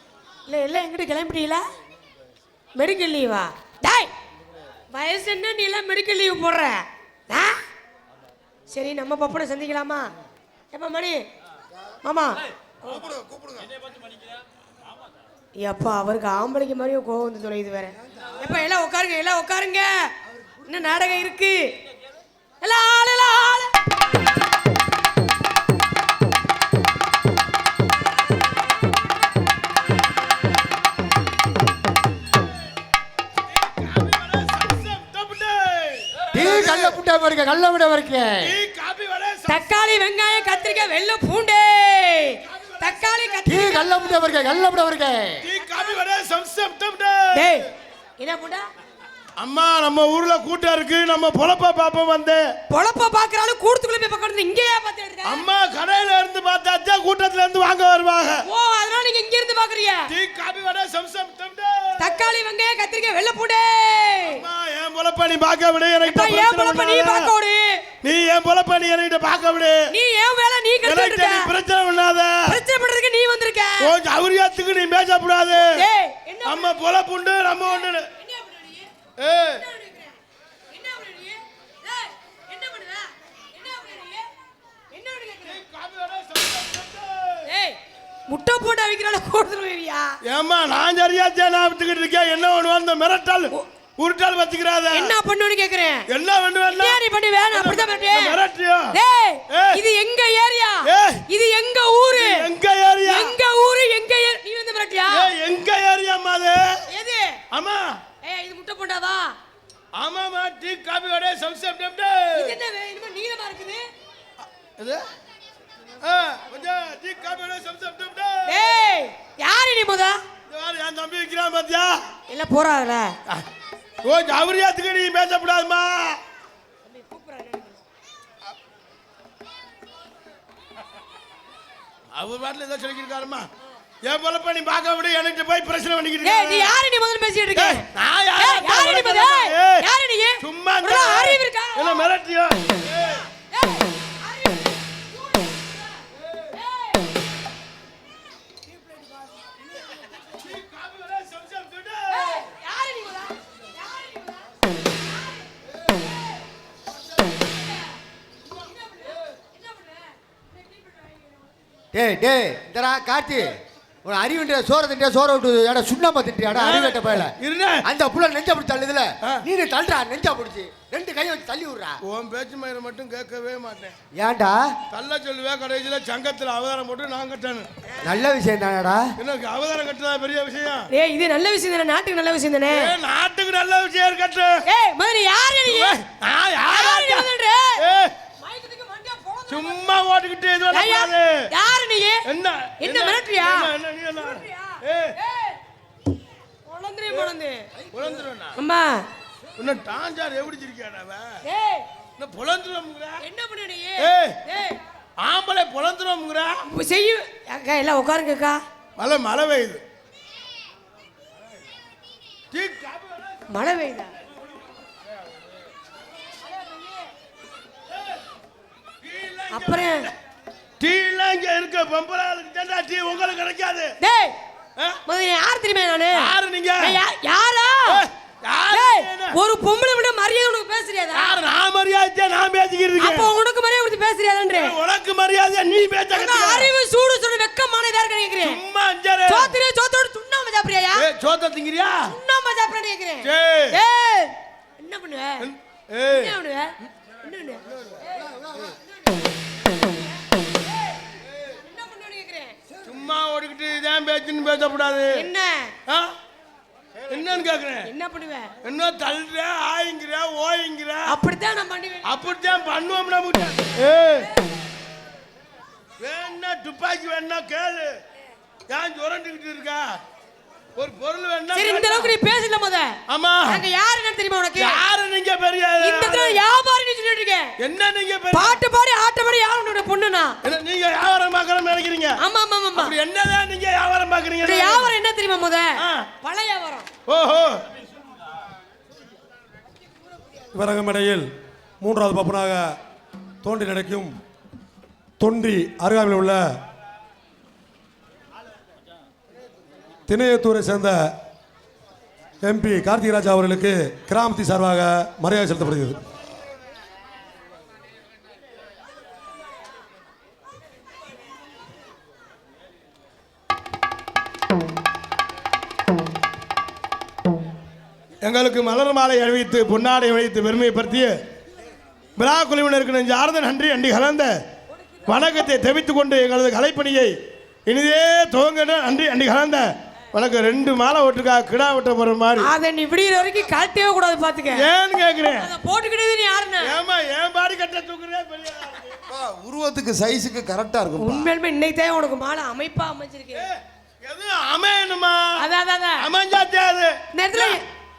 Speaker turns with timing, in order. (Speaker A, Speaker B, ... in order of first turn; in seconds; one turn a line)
Speaker A: 0.5-1.6
Speaker A: 2.8-4.1
Speaker A: 4.9-7.6
Speaker A: 8.7-10.1
Speaker A: 10.7-11.2
Speaker A: 12.0-13.0
Speaker B: 12.8-13.7
Speaker A: 15.6-20.1
Speaker A: 20.6-21.7
Speaker A: 22.6-23.7
Speaker C: 33.5-36.9
Speaker D: 36.3-38.5
Speaker C: 38.4-39.7
Speaker A: 39.5-44.2
Speaker C: 42.5-43.5
Speaker D: 43.5-45.4
Speaker C: 45.4-47.5
Speaker A: 47.3-47.7
Speaker A: 48.2-48.7
Speaker C: 49.4-52.4
Speaker A: 52.7-55.5
Speaker C: 55.2-58.4
Speaker A: 58.4-60.1
Speaker C: 60.1-62.2
Speaker A: 62.0-64.4
Speaker C: 64.2-67.3
Speaker A: 66.0-67.8
Speaker C: 68.0-69.8
Speaker A: 69.9-71.5
Speaker C: 70.8-72.6
Speaker A: 72.5-73.9
Speaker C: 73.8-75.8
Speaker A: 75.5-76.8
Speaker C: 76.4-78.0
Speaker A: 77.7-78.9
Speaker C: 79.2-79.6
Speaker A: 79.5-80.1
Speaker A: 80.7-84.2
Speaker A: 84.9-85.6
Speaker C: 85.5-87.4
Speaker A: 87.4-87.8
Speaker A: 88.3-90.2
Speaker C: 90.2-95.1
Speaker A: 94.9-96.0
Speaker C: 96.1-97.0
Speaker A: 96.7-98.4
Speaker C: 97.5-98.9
Speaker A: 98.9-102.5
Speaker C: 99.5-99.8
Speaker C: 100.9-101.2
Speaker C: 102.1-103.3
Speaker A: 103.0-105.3
Speaker C: 105.1-106.8
Speaker A: 106.9-107.4
Speaker C: 107.5-108.0
Speaker A: 108.2-109.3
Speaker C: 110.0-112.5
Speaker A: 112.3-113.9
Speaker C: 116.0-118.8
Speaker A: 118.5-120.2
Speaker C: 120.5-122.0
Speaker A: 122.3-123.1
Speaker C: 124.0-126.2
Speaker A: 126.8-127.8
Speaker C: 132.2-133.5
Speaker C: 134.0-136.7
Speaker A: 136.2-142.0
Speaker C: 137.6-139.8
Speaker C: 140.4-143.2
Speaker A: 143.5-145.8
Speaker A: 146.5-147.0
Speaker C: 150.3-152.4
Speaker A: 152.1-154.4
Speaker A: 158.6-159.0
Speaker A: 159.6-160.0
Speaker D: 161.9-172.0
Speaker C: 166.5-167.8
Speaker C: 172.0-174.0
Speaker D: 174.2-174.6
Speaker C: 174.9-177.7
Speaker D: 178.0-179.0
Speaker C: 179.2-180.9
Speaker A: 180.9-182.9
Speaker C: 182.7-184.6
Speaker A: 184.7-186.0
Speaker C: 185.7-187.3
Speaker A: 186.7-187.8
Speaker C: 187.8-188.1
Speaker A: 188.4-189.8
Speaker C: 189.5-191.3
Speaker A: 190.7-192.2
Speaker C: 192.2-195.2
Speaker A: 192.8-195.6
Speaker A: 196.7-197.7
Speaker C: 197.9-198.6
Speaker A: 198.6-199.1
Speaker C: 199.6-201.4
Speaker A: 201.4-201.8
Speaker C: 202.2-203.2
Speaker A: 203.2-204.8
Speaker C: 204.0-204.4
Speaker C: 205.2-206.6
Speaker A: 206.7-208.6
Speaker C: 209.0-209.8
Speaker C: 212.5-213.3
Speaker A: 213.5-214.1
Speaker C: 219.0-220.1
Speaker A: 219.5-220.1
Speaker C: 220.8-223.9
Speaker A: 224.0-224.4
Speaker A: 225.0-228.0
Speaker C: 226.1-227.0
Speaker C: 227.9-229.4
Speaker A: 228.7-231.4
Speaker C: 231.1-233.3
Speaker A: 233.0-234.8
Speaker C: 234.5-236.7
Speaker A: 236.1-238.6
Speaker C: 238.4-239.5
Speaker A: 239.2-241.1
Speaker C: 241.0-242.0
Speaker A: 242.1-245.5
Speaker C: 243.2-243.8
Speaker C: 245.4-246.3
Speaker A: 246.1-247.6
Speaker A: 251.5-252.6
Speaker C: 252.8-255.3
Speaker A: 255.1-255.7
Speaker C: 255.9-256.1
Speaker C: 257.1-257.9
Speaker A: 257.9-258.5
Speaker C: 258.6-261.1
Speaker A: 261.1-262.2
Speaker C: 262.1-264.3
Speaker C: 266.0-267.9
Speaker C: 268.7-269.9
Speaker C: 270.8-272.1
Speaker A: 271.5-274.8
Speaker C: 273.1-273.6
Speaker C: 274.6-276.4
Speaker A: 275.8-277.5
Speaker C: 277.6-278.6
Speaker A: 278.3-280.4
Speaker C: 280.4-282.2
Speaker A: 282.2-282.9
Speaker C: 282.8-284.9
Speaker A: 284.4-286.9
Speaker C: 285.8-286.1
Speaker C: 287.1-287.6
Speaker E: 290.5-291.3
Speaker E: 291.8-292.8
Speaker E: 293.4-294.1
Speaker E: 295.2-296.4
Speaker E: 300.1-301.1
Speaker E: 302.4-306.0
Speaker C: 318.2-321.1
Speaker C: 322.2-324.3
Speaker C: 325.1-327.1
Speaker C: 327.7-332.5
Speaker A: 332.4-334.7
Speaker C: 334.6-335.4
Speaker A: 335.4-336.8
Speaker C: 336.6-339.0
Speaker B: 339.1-341.3
Speaker A: 341.0-343.5
Speaker C: 343.4-345.4
Speaker A: 345.4-346.1
Speaker C: 346.0-347.6
Speaker A: 347.1-347.6